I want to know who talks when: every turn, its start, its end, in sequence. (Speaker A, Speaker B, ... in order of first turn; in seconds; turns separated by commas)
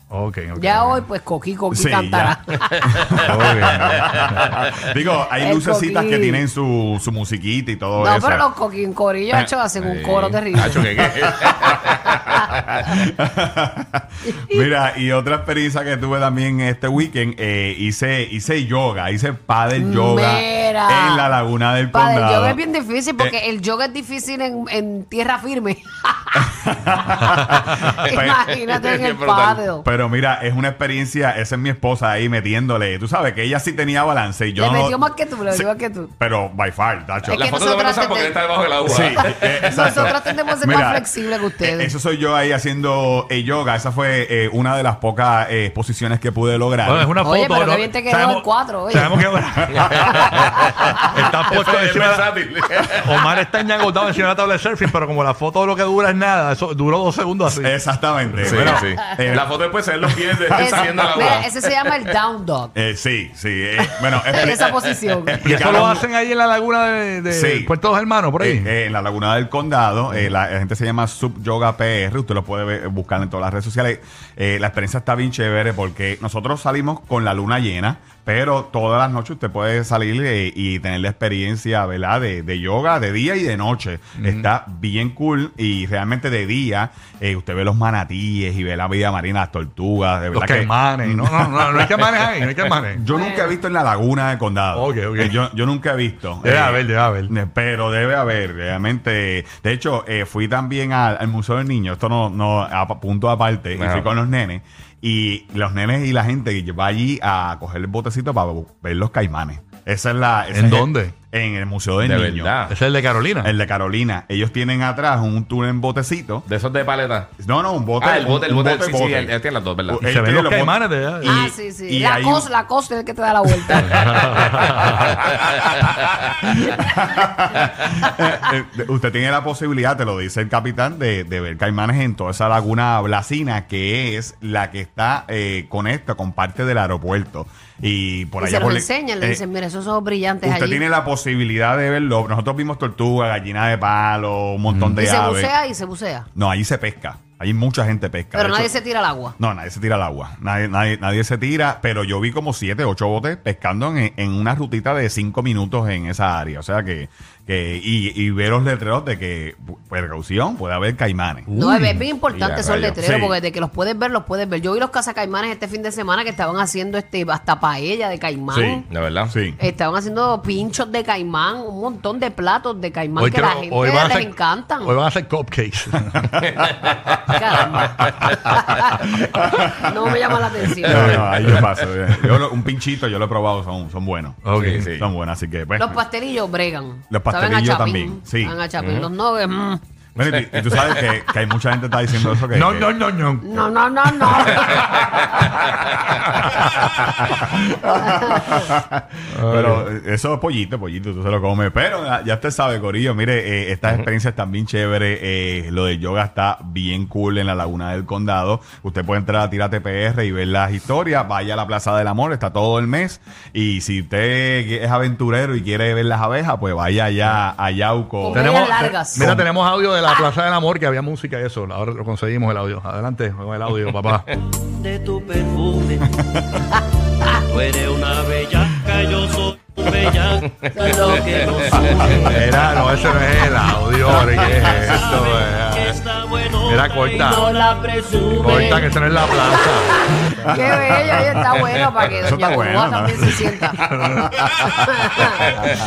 Speaker A: 0.1-1.0, Speaker B: 0.6-3.1, Speaker C: 1.7-2.4, Speaker C: 3.0-8.4, Speaker A: 3.2-4.6, Speaker B: 5.4-6.4, Speaker B: 8.0-10.9, Speaker D: 9.8-12.6, Speaker C: 12.8-22.6, Speaker B: 14.2-14.7, Speaker B: 19.8-21.3, Speaker B: 21.9-26.5, Speaker C: 26.4-28.4, Speaker B: 27.8-29.9, Speaker D: 28.7-29.6, Speaker C: 29.8-37.4, Speaker B: 34.6-36.1, Speaker B: 37.3-38.4, Speaker D: 37.3-40.0, Speaker C: 38.8-47.1, Speaker B: 39.0-41.9, Speaker A: 46.8-52.3, Speaker B: 47.2-49.2, Speaker C: 49.8-50.2, Speaker B: 50.0-51.1, Speaker D: 51.4-53.2, Speaker A: 53.0-57.7, Speaker C: 57.6-59.6, Speaker A: 58.4-58.6, Speaker D: 58.4-61.5, Speaker B: 58.6-59.0, Speaker C: 60.1-61.3, Speaker B: 60.5-62.7, Speaker C: 62.7-66.0, Speaker B: 64.2-65.4, Speaker A: 65.4-68.7, Speaker C: 67.3-67.7, Speaker C: 68.4-92.2, Speaker A: 84.2-84.5, Speaker A: 90.3-93.0, Speaker C: 92.9-112.6, Speaker B: 93.1-93.5, Speaker A: 94.7-95.4, Speaker A: 96.4-97.3, Speaker D: 103.8-104.1, Speaker A: 110.5-111.1, Speaker D: 112.0-112.7, Speaker A: 112.7-113.5, Speaker C: 113.4-116.5, Speaker D: 116.5-117.3, Speaker C: 117.4-119.3, Speaker D: 118.0-120.0, Speaker C: 119.9-122.5, Speaker A: 120.0-121.4, Speaker B: 121.2-124.1, Speaker A: 123.9-125.0, Speaker C: 126.5-139.4, Speaker B: 138.4-140.8, Speaker C: 140.4-145.5, Speaker B: 144.9-146.3, Speaker C: 146.3-148.7, Speaker B: 148.3-149.3, Speaker C: 149.4-161.5, Speaker A: 161.5-162.0, Speaker B: 161.5-168.8, Speaker D: 162.3-163.0, Speaker C: 163.0-163.3, Speaker C: 168.5-169.6, Speaker D: 168.9-169.3, Speaker B: 169.6-174.9, Speaker A: 173.2-176.3, Speaker D: 176.5-177.4, Speaker B: 177.3-181.3, Speaker A: 178.1-178.5, Speaker C: 179.3-179.8, Speaker C: 180.9-184.4, Speaker A: 180.9-181.7, Speaker A: 184.4-184.9, Speaker D: 184.5-185.1, Speaker C: 184.9-186.0, Speaker B: 185.8-189.8, Speaker C: 187.1-188.6, Speaker D: 188.8-189.1, Speaker C: 190.2-192.9, Speaker A: 192.2-193.5, Speaker B: 193.4-195.0, Speaker C: 194.5-195.2, Speaker C: 196.7-218.5, Speaker A: 199.3-199.9, Speaker B: 218.2-219.2, Speaker A: 218.3-224.3, Speaker C: 219.2-219.4, Speaker E: 224.8-226.0, Speaker C: 226.0-226.3, Speaker E: 227.5-229.4, Speaker E: 230.1-230.4, Speaker B: 230.7-231.4, Speaker D: 230.9-232.2, Speaker E: 231.0-231.4, Speaker A: 232.3-236.0, Speaker E: 234.2-239.2, Speaker A: 236.6-237.4, Speaker B: 237.3-238.8, Speaker A: 238.3-240.0, Speaker B: 239.9-243.8, Speaker C: 240.5-241.4, Speaker C: 242.1-245.4, Speaker A: 243.8-244.5, Speaker B: 244.7-245.6